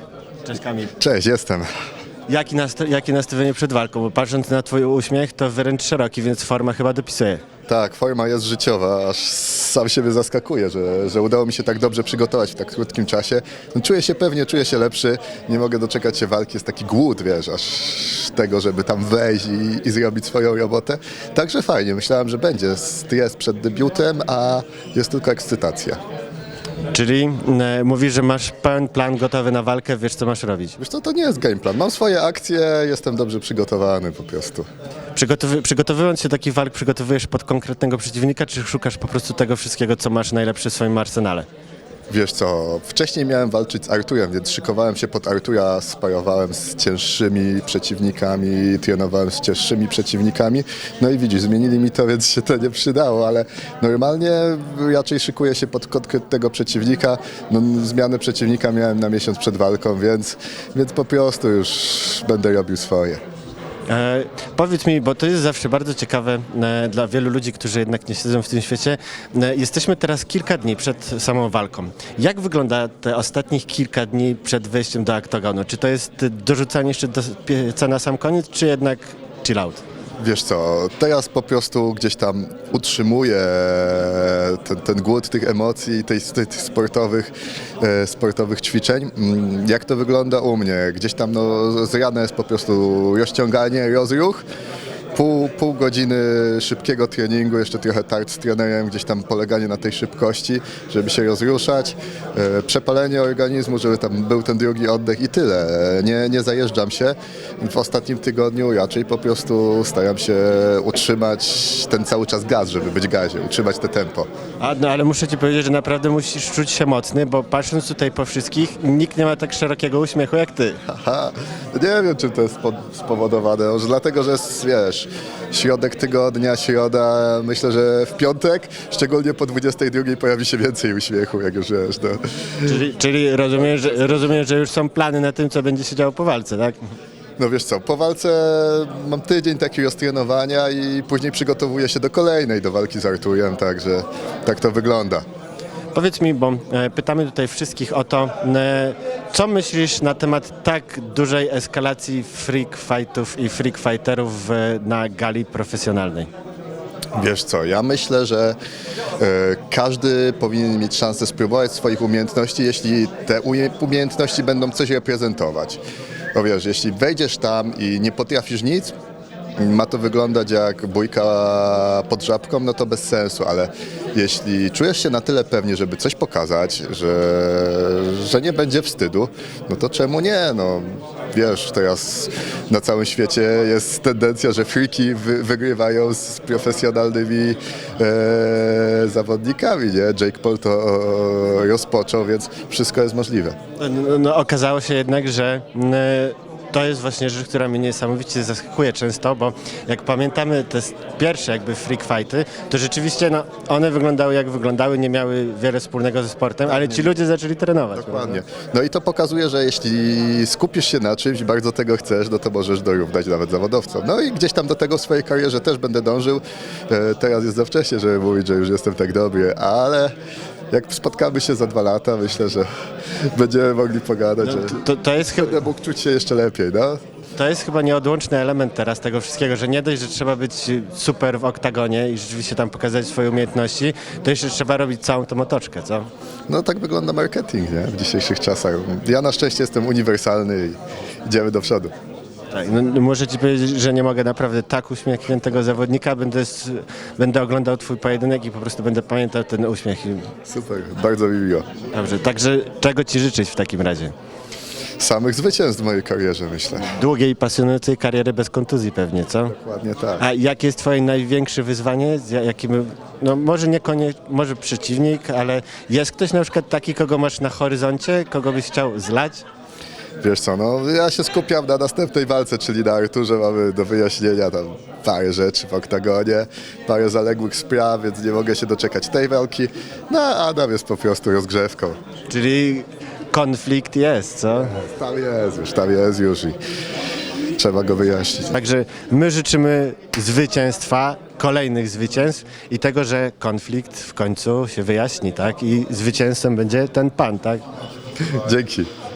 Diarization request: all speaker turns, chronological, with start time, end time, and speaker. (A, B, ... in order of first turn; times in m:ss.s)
0:00.4-0:00.9 A
0:01.0-0:01.7 B
0:02.3-0:07.4 A
0:07.7-0:26.0 B
0:26.9-0:30.8 A
0:30.8-0:34.7 B
0:35.2-0:41.5 A
0:42.1-1:03.2 B
1:03.9-1:19.8 A
1:20.2-1:34.4 B
1:35.1-1:54.3 B
1:54.6-2:00.8 A
2:00.9-2:12.8 B
2:12.7-2:16.8 A
2:13.7-2:14.2 B
2:17.4-2:25.2 B
2:25.9-2:36.3 A
2:37.2-2:38.6 B
2:39.2-2:45.8 B
2:46.3-2:48.9 B
2:49.6-3:13.6 B
3:13.8-3:28.4 A
3:26.8-3:27.1 B
3:27.9-3:40.1 B
3:40.7-3:42.7 B
3:43.3-3:47.0 B
3:44.4-3:45.6 A
3:47.4-3:56.1 A
3:56.5-4:01.9 B
4:02.5-4:10.3 A
4:10.5-4:11.7 B
4:11.9-4:14.1 A
4:15.0-4:16.9 B
4:16.8-4:19.5 A
4:19.5-4:20.2 B
4:20.2-4:29.4 A
4:30.2-4:42.0 B
4:42.3-4:44.7 A
4:44.5-4:46.6 B
4:47.6-4:48.6 B
4:48.5-4:57.6 A
4:58.2-4:58.9 B